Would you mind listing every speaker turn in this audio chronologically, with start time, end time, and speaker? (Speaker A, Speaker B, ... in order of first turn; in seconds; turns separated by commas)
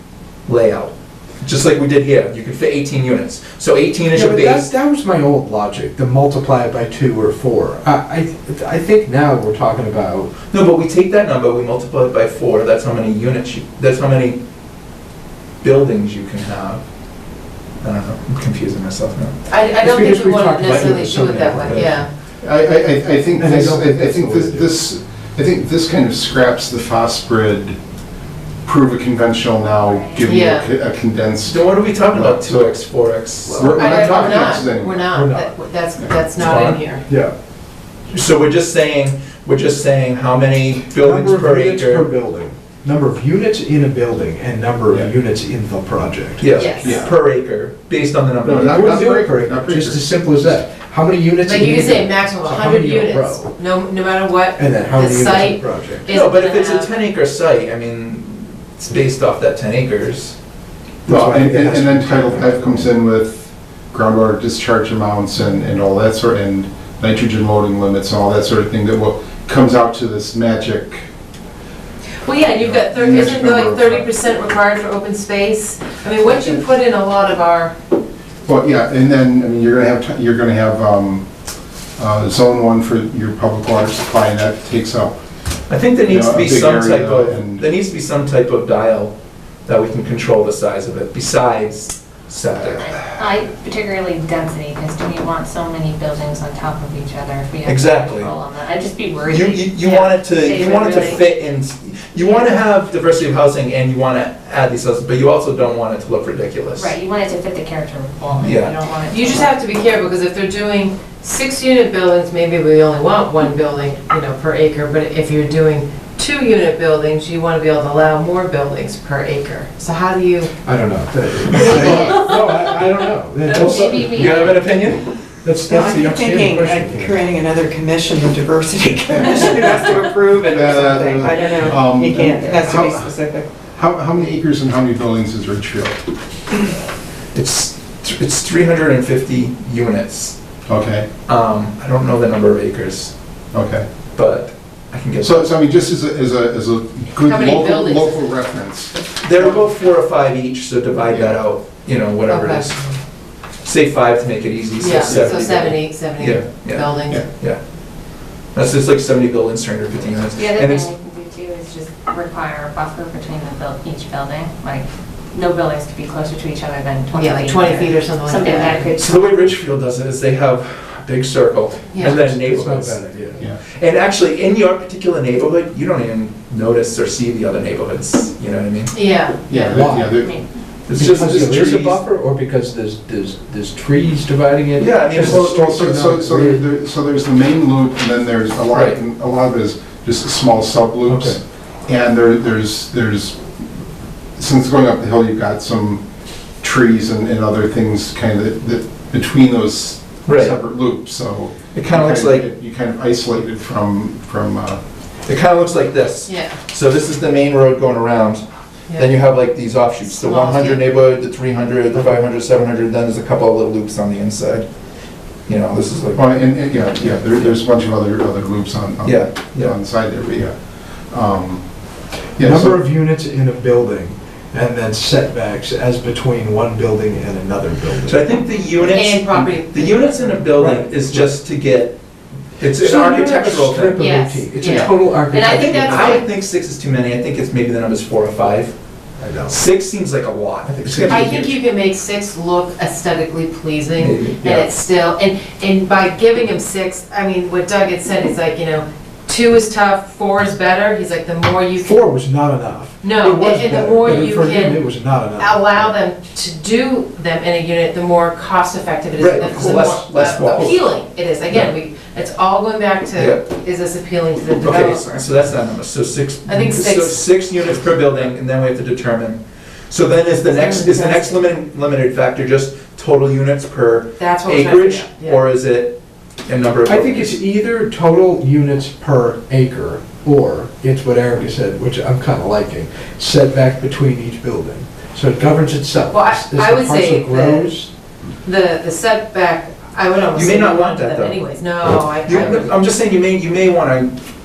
Speaker A: 0.5-4.7, Speaker B: 4.1-10.3, Speaker A: 10.5-14.4, Speaker A: 15.6-16.8, Speaker A: 17.8-19.3, Speaker C: 19.5-22.1, Speaker B: 19.8-22.1, Speaker A: 21.7-22.0, Speaker D: 22.4-27.8, Speaker B: 23.4-24.7, Speaker D: 28.6-32.8, Speaker E: 29.8-30.2, Speaker C: 30.2-30.7, Speaker A: 31.4-33.9, Speaker C: 33.5-37.0, Speaker D: 33.5-35.1, Speaker B: 33.6-34.4, Speaker B: 35.1-35.5, Speaker A: 36.4-36.8, Speaker B: 37.1-37.3, Speaker A: 38.1-42.1, Speaker B: 40.9-46.6, Speaker A: 46.4-48.9, Speaker C: 46.5-47.1, Speaker D: 46.8-47.1, Speaker D: 48.4-50.1, Speaker B: 48.6-53.5, Speaker C: 51.4-56.9, Speaker B: 54.6-56.1, Speaker A: 56.1-60.4, Speaker B: 61.0-62.9, Speaker D: 61.1-71.0, Speaker C: 72.2-77.7, Speaker D: 72.6-74.1, Speaker D: 78.5-81.2, Speaker D: 82.0-85.1, Speaker A: 85.7-89.1, Speaker D: 86.1-87.6, Speaker A: 89.7-93.0, Speaker E: 92.9-101.3, Speaker A: 97.6-98.3, Speaker A: 99.2-106.9, Speaker E: 106.7-109.5, Speaker A: 108.4-108.7, Speaker C: 109.1-120.5, Speaker B: 120.6-124.8, Speaker A: 121.5-122.2, Speaker E: 121.6-122.3, Speaker E: 123.5-124.7, Speaker A: 123.5-125.1, Speaker B: 125.4-127.2, Speaker F: 125.6-133.5, Speaker D: 129.1-133.1, Speaker D: 133.7-136.0, Speaker A: 137.3-140.4, Speaker D: 140.7-141.1, Speaker A: 141.3-143.1, Speaker D: 143.5-143.8, Speaker A: 144.1-145.5, Speaker D: 145.2-148.9, Speaker C: 147.2-148.3, Speaker A: 149.2-152.8, Speaker D: 151.1-151.4, Speaker C: 152.3-153.0, Speaker A: 153.6-157.6, Speaker C: 154.8-157.2, Speaker D: 155.1-155.4, Speaker A: 158.5-160.9, Speaker E: 160.3-169.2, Speaker C: 167.1-169.0, Speaker A: 168.9-173.0, Speaker B: 172.0-173.4, Speaker A: 173.8-178.9, Speaker C: 178.9-179.8, Speaker D: 179.5-180.3, Speaker B: 179.5-180.2, Speaker E: 180.2-180.5, Speaker A: 180.9-182.0, Speaker B: 180.9-186.6, Speaker A: 184.8-185.5, Speaker D: 185.1-193.4, Speaker A: 188.7-189.0, Speaker B: 191.1-191.4, Speaker D: 194.4-196.0, Speaker D: 196.6-204.8, Speaker A: 200.2-200.6, Speaker A: 201.7-202.5, Speaker A: 205.3-208.4, Speaker C: 206.3-206.6, Speaker A: 208.9-214.7, Speaker C: 210.0-210.8, Speaker A: 215.5-217.6, Speaker D: 216.1-220.5, Speaker A: 219.0-219.7, Speaker D: 221.1-221.6, Speaker D: 222.4-222.8, Speaker B: 222.4-228.3, Speaker A: 228.0-232.0, Speaker C: 228.8-230.4, Speaker B: 230.6-231.3, Speaker A: 232.6-234.1, Speaker B: 232.7-236.2, Speaker C: 233.9-236.2, Speaker A: 234.6-238.7, Speaker B: 239.2-239.5, Speaker A: 239.5-241.5, Speaker B: 240.8-241.4, Speaker C: 241.1-252.0, Speaker A: 244.0-244.4, Speaker D: 244.4-244.7, Speaker B: 251.7-255.9, Speaker C: 253.0-254.8, Speaker C: 255.4-265.2, Speaker A: 259.2-260.8, Speaker A: 263.1-263.4, Speaker A: 264.6-277.4, Speaker C: 266.4-267.2, Speaker C: 270.4-271.4, Speaker C: 274.2-275.4, Speaker B: 276.9-287.9, Speaker C: 286.1-287.7, Speaker C: 288.4-292.7, Speaker A: 290.3-294.1